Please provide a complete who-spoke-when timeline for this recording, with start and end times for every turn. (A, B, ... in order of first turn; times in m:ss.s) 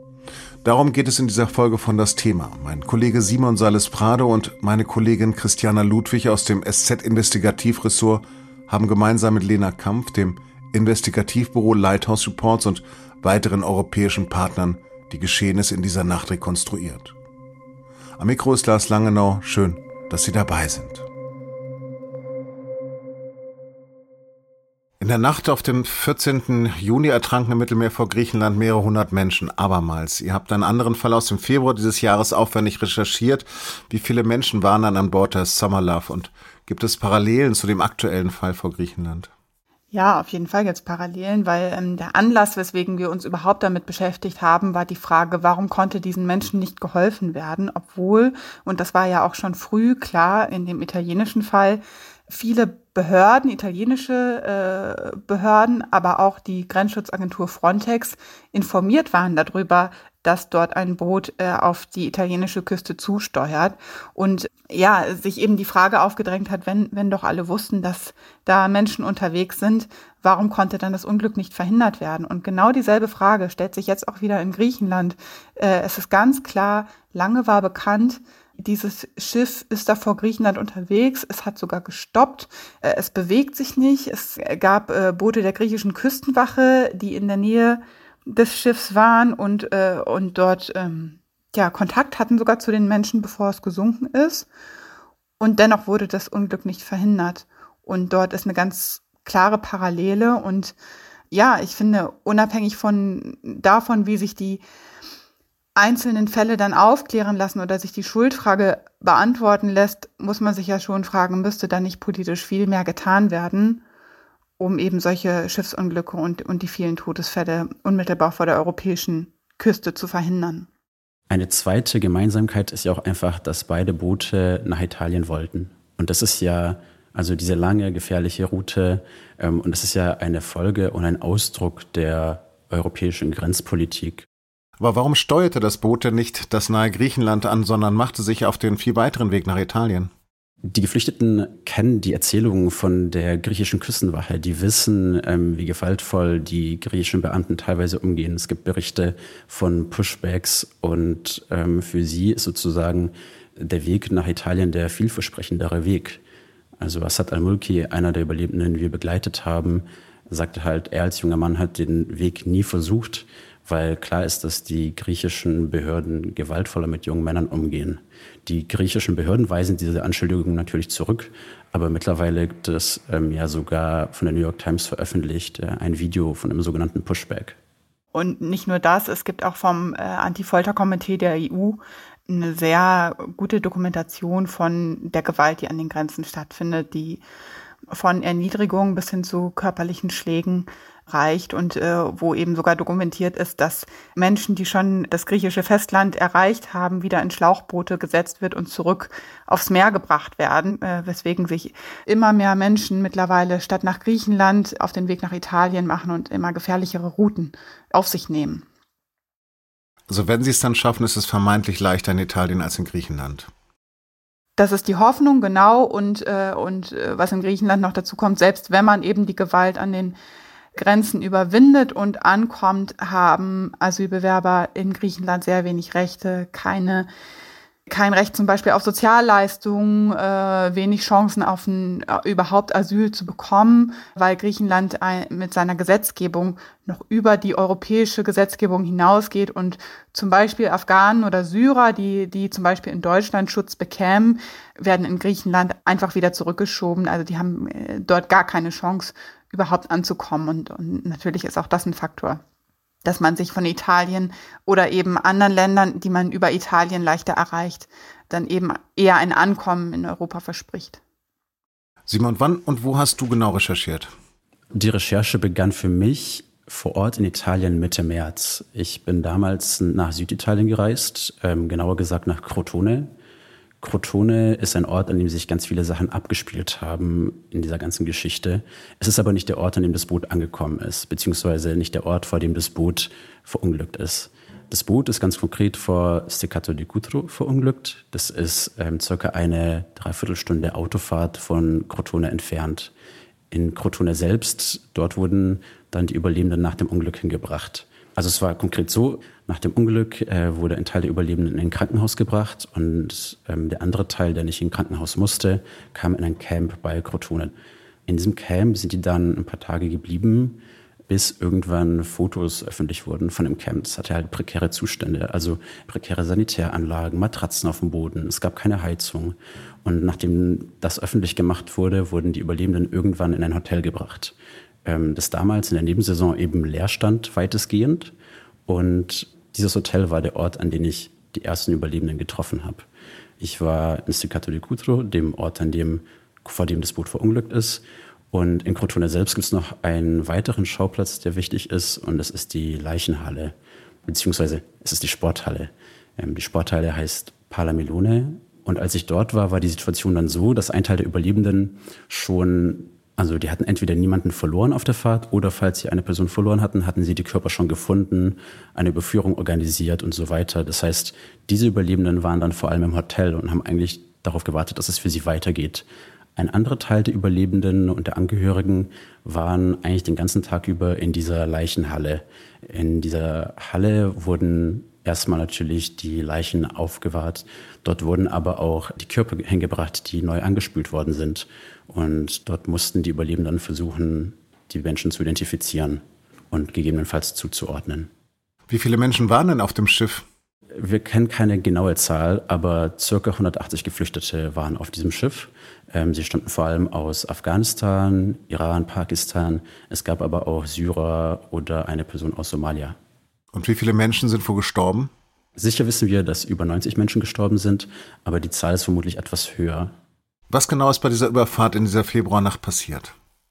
0:00.6-0:17.1 A
0:18.2-0:21.0 A
0:25.0-0:39.3 A
0:39.9-1:34.5 B
1:35.4-1:40.7 B
1:41.3-1:44.6 B
1:45.8-1:53.8 B
1:54.6-2:00.7 B
2:01.3-2:14.2 C
2:14.8-2:20.1 A
2:20.7-2:36.2 C
2:36.8-2:57.6 C
2:58.1-3:07.2 B
3:07.9-3:28.6 B
3:30.1-3:33.5 A
3:34.6-3:40.2 B
3:40.8-3:47.1 B
3:47.9-4:12.4 B
4:13.0-4:21.0 B
4:22.1-4:24.1 A
4:24.7-4:33.1 C
4:33.8-4:52.9 C
4:53.5-5:07.5 C
5:08.1-5:24.3 C
5:24.8-5:28.1 C
5:28.7-5:32.8 C
5:33.4-5:43.5 C
5:44.0-6:05.8 C
6:06.4-6:28.1 C
6:28.7-6:30.2 A
6:30.7-6:43.0 C
6:43.5-6:45.1 A
6:45.6-6:49.9 C
6:50.5-6:53.1 A